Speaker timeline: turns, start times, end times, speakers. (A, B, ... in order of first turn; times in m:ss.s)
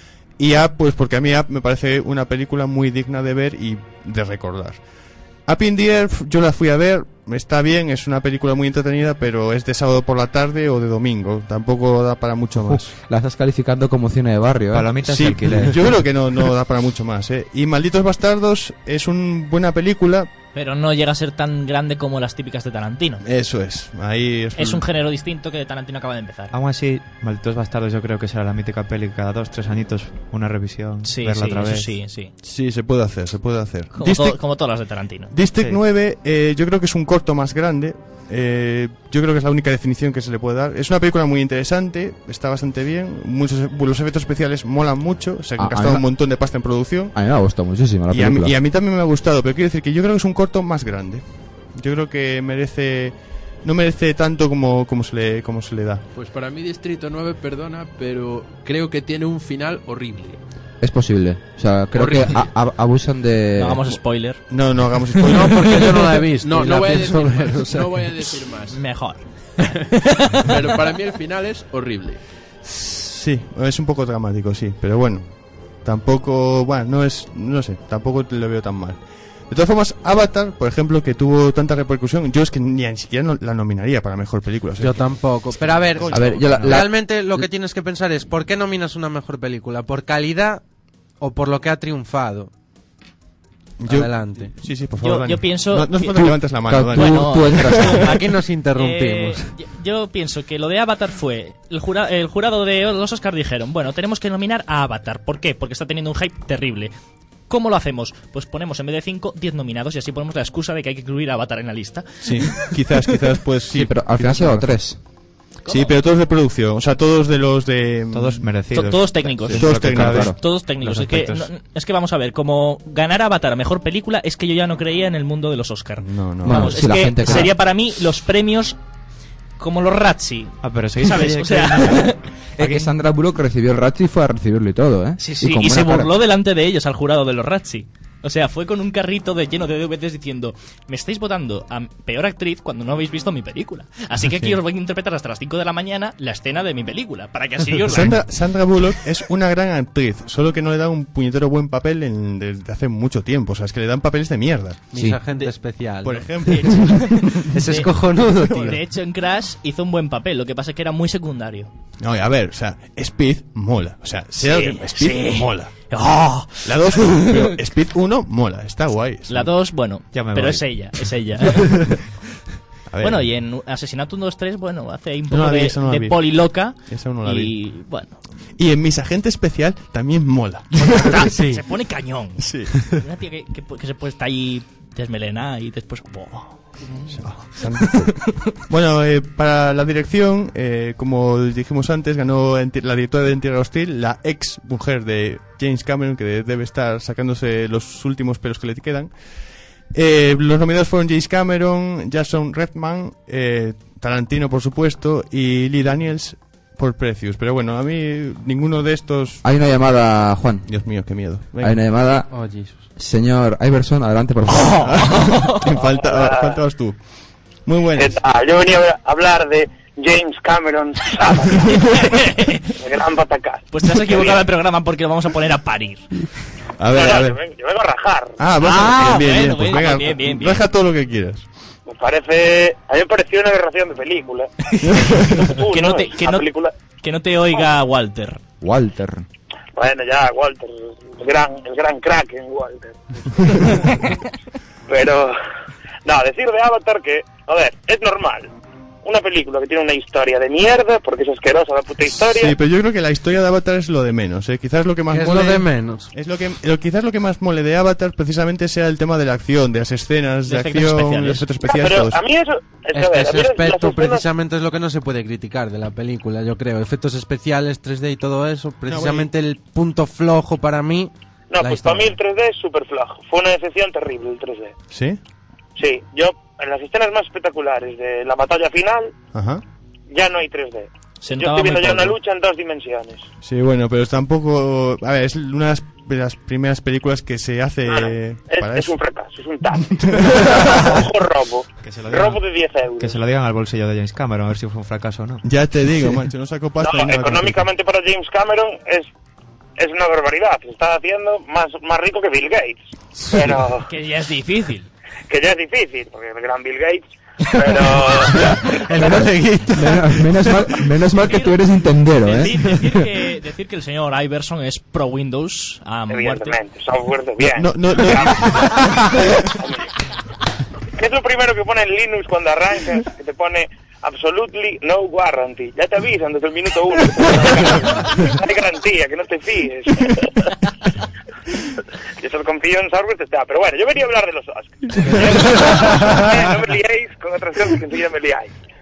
0:00.4-0:04.8 A
0:05.4-0:12.9 A
0:12.6-0:15.6 B
0:14.7-0:15.8 C
0:15.0-0:20.3 A
0:20.5-0:23.2 D
0:23.2-0:24.8 A
0:24.6-0:26.5 D
0:26.5-0:31.9 C
0:31.0-0:32.3 D
0:32.4-0:47.2 A
0:33.9-0:35.3 D
0:45.6-0:46.0 B
0:47.1-0:48.5 B
0:48.1-0:56.0 A
0:56.1-1:00.4 E
1:00.8-1:04.0 B
1:03.6-1:04.8 D
1:04.5-1:06.2 A
1:05.3-1:07.9 F
1:06.4-1:09.0 E
1:08.7-1:10.5 D
1:09.9-1:12.2 E
1:12.6-1:26.8 A
1:24.8-1:30.6 F
1:26.1-1:27.5 B
1:31.2-1:32.5 F
1:33.8-1:37.5 A
1:33.8-1:34.5 F
1:35.0-1:38.2 D
1:36.2-1:38.2 B
1:37.9-1:39.4 F
1:38.7-1:46.9 D
1:47.5-1:52.7 D
1:52.2-1:54.8 A
1:53.7-1:55.0 B
1:55.6-1:55.9 D
1:55.7-1:58.5 A
1:58.1-2:01.5 C
1:58.7-2:08.8 D
1:59.5-2:00.4 B
1:59.5-2:00.3 A
2:06.0-2:07.4 A
2:06.4-2:07.5 B
2:09.6-2:12.8 D
2:10.6-2:12.2 C
2:12.6-2:16.1 B
2:15.2-2:28.3 D
2:24.2-2:24.6 A
2:27.8-2:34.9 A
2:34.9-2:38.8 F
2:36.0-2:37.3 A
2:36.4-2:41.7 D
2:42.0-2:45.7 A
2:44.4-2:47.5 D
2:46.6-2:49.5 A
2:49.3-2:51.9 D
2:50.1-2:51.1 C
2:52.9-2:53.3 A
2:53.0-2:58.2 D
2:55.3-2:57.6 A
2:58.6-3:01.4 A
3:00.8-3:07.9 D
3:02.4-3:03.0 A
3:07.1-3:19.1 A
3:19.9-3:29.4 A
3:29.4-3:30.7 B
3:30.7-3:31.8 A
3:31.6-3:32.3 B
3:32.3-3:32.8 F
3:33.0-3:35.0 B
3:34.5-3:35.7 D
3:34.8-3:37.0 A
3:36.0-3:36.6 G
3:37.6-3:38.2 A
3:37.9-3:42.0 G
3:41.7-3:42.7 D
3:42.7-3:44.4 G
3:43.7-3:46.1 D
3:46.8-3:47.4 A
3:46.9-3:48.4 G
3:48.4-3:51.4 A
3:48.6-3:50.6 D
3:51.9-3:54.5 G
3:54.7-3:56.4 D
3:54.8-3:55.4 A
3:55.1-3:56.7 G
3:57.0-3:58.4 D
3:58.6-3:59.2 B
3:59.8-4:04.0 G
4:04.9-4:05.4 G
4:06.0-4:08.5 G
4:09.0-4:12.5 G
4:12.2-4:22.2 A
4:15.1-4:16.1 F
4:20.5-4:21.4 D
4:21.6-4:24.3 G
4:22.9-4:32.1 F
4:28.9-4:29.3 A
4:31.5-4:34.7 G
4:34.9-4:35.2 A
4:35.8-4:39.1 G
4:39.3-4:39.6 A
4:40.1-4:43.3 G
4:41.2-4:42.1 D
4:43.4-4:48.9 A
4:47.9-4:53.2 G
4:49.9-4:51.0 A
4:51.8-4:52.4 C
4:53.0-4:55.4 C
4:55.4-4:57.6 A
4:56.8-4:59.1 G
4:59.8-5:03.9 G
5:03.8-5:04.9 D
5:05.3-5:09.2 G
5:07.5-5:10.5 F
5:09.0-5:12.9 B
5:11.2-5:11.6 D
5:12.2-5:16.5 D
5:16.1-5:18.8 G
5:17.4-5:19.4 A
5:19.6-5:19.9 G
5:21.0-5:30.6 G
5:32.2-5:38.5 G